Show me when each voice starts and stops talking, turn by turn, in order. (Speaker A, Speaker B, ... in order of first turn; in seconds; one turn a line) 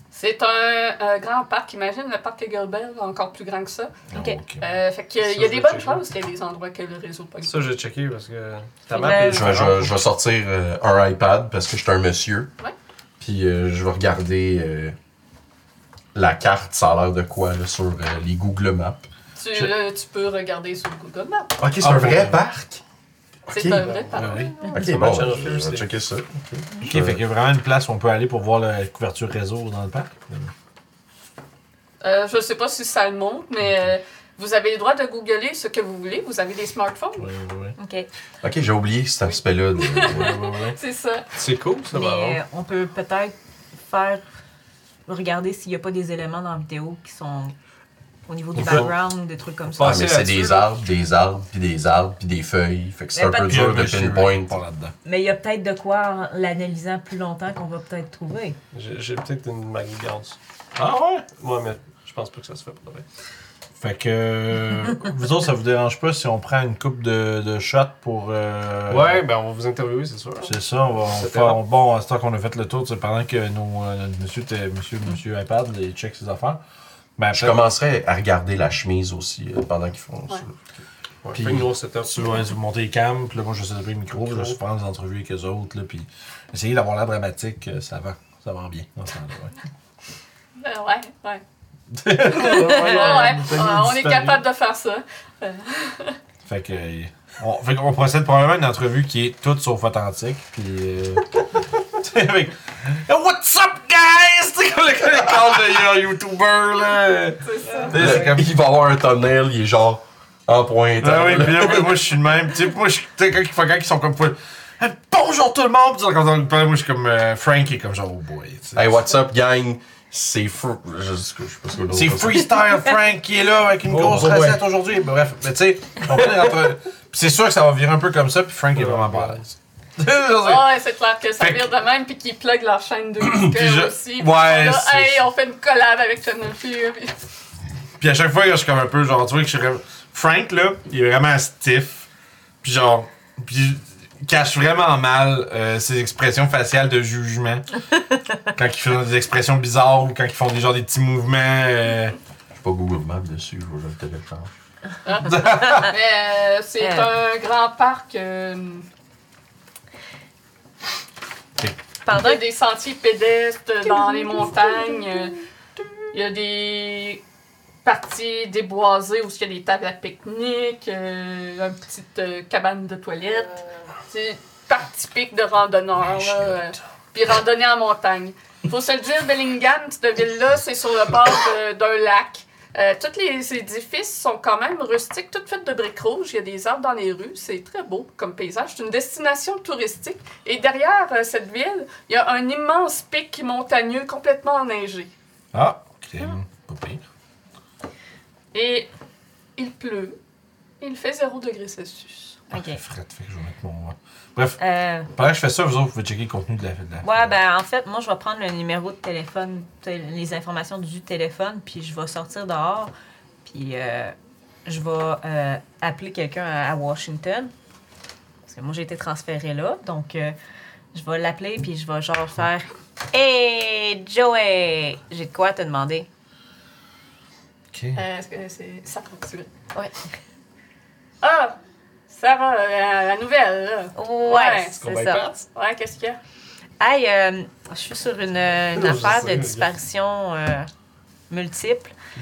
Speaker A: 0.1-3.9
Speaker B: 4.1-4.6
Speaker A: 4.6-7.7
Speaker C: 5.2-6.0
Speaker C: 7.4-9.9
Speaker D: 8.9-9.6
Speaker E: 9.1-12.5
Speaker E: 13.2-14.9
Speaker E: 16.1-19.1
Speaker A: 19.4-21.6
Speaker E: 21.6-22.8
Speaker B: 21.8-22.4
Speaker E: 23.5-27.2
Speaker A: 23.5-24.6
Speaker C: 23.8-25.9
Speaker B: 26.8-30.5
Speaker A: 32.0-37.3
Speaker B: 37.2-37.8
Speaker D: 37.8-38.1
Speaker E: 38.4-40.4
Speaker A: 39.2-41.3
Speaker B: 40.1-40.8
Speaker C: 41.3-42.4
Speaker D: 41.9-44.2
Speaker D: 45.1-47.5
Speaker D: 48.3-50.1
Speaker C: 48.6-48.9
Speaker E: 48.6-48.9
Speaker C: 49.7-50.6
Speaker E: 49.8-54.6
Speaker D: 53.1-53.7
Speaker B: 53.4-54.9
Speaker D: 55.0-58.6
Speaker C: 58.7-60.4
Speaker B: 60.8-61.2
Speaker C: 61.4-63.0
Speaker B: 63.8-69.2
Speaker C: 68.9-71.6
Speaker B: 70.4-76.6
Speaker B: 77.2-77.6
Speaker E: 77.3-80.6
Speaker C: 81.2-82.2
Speaker E: 81.3-81.7
Speaker B: 82.0-89.5
Speaker C: 84.3-84.5
Speaker A: 90.6-91.4
Speaker B: 91.9-94.4
Speaker A: 92.2-96.2
Speaker C: 92.8-93.8
Speaker B: 96.4-108.5
Speaker A: 107.4-108.2
Speaker E: 107.9-112.0
Speaker B: 111.0-119.0
Speaker E: 118.8-122.5
Speaker B: 121.9-130.7
Speaker C: 123.9-124.6
Speaker C: 126.1-126.7
Speaker C: 128.7-129.4
Speaker A: 130.4-137.2
Speaker B: 131.4-131.7
Speaker B: 133.2-135.3
Speaker B: 138.0-142.1
Speaker B: 142.6-147.7
Speaker B: 148.5-152.2
Speaker E: 152.5-154.5
Speaker A: 155.0-158.8
Speaker B: 155.2-155.9
Speaker D: 156.8-157.1
Speaker D: 162.0-162.4
Speaker A: 162.1-165.4
Speaker D: 163.9-165.2
Speaker A: 166.1-167.2
Speaker A: 167.8-195.1
Speaker B: 176.2-176.5
Speaker B: 195.5-197.0
Speaker A: 198.5-198.9
Speaker A: 199.6-200.2
Speaker A: 200.8-202.4
Speaker D: 202.5-202.8
Speaker B: 202.6-204.6
Speaker D: 204.6-205.1
Speaker B: 205.1-207.3
Speaker D: 207.0-212.9
Speaker D: 213.4-214.1
Speaker D: 214.6-217.5
Speaker D: 218.4-220.3
Speaker D: 220.9-226.1
Speaker B: 227.7-228.0
Speaker A: 227.9-229.5
Speaker A: 231.2-231.5
Speaker A: 232.1-236.2
Speaker D: 233.9-235.2
Speaker D: 236.8-240.7
Speaker C: 238.7-239.7
Speaker D: 241.3-241.9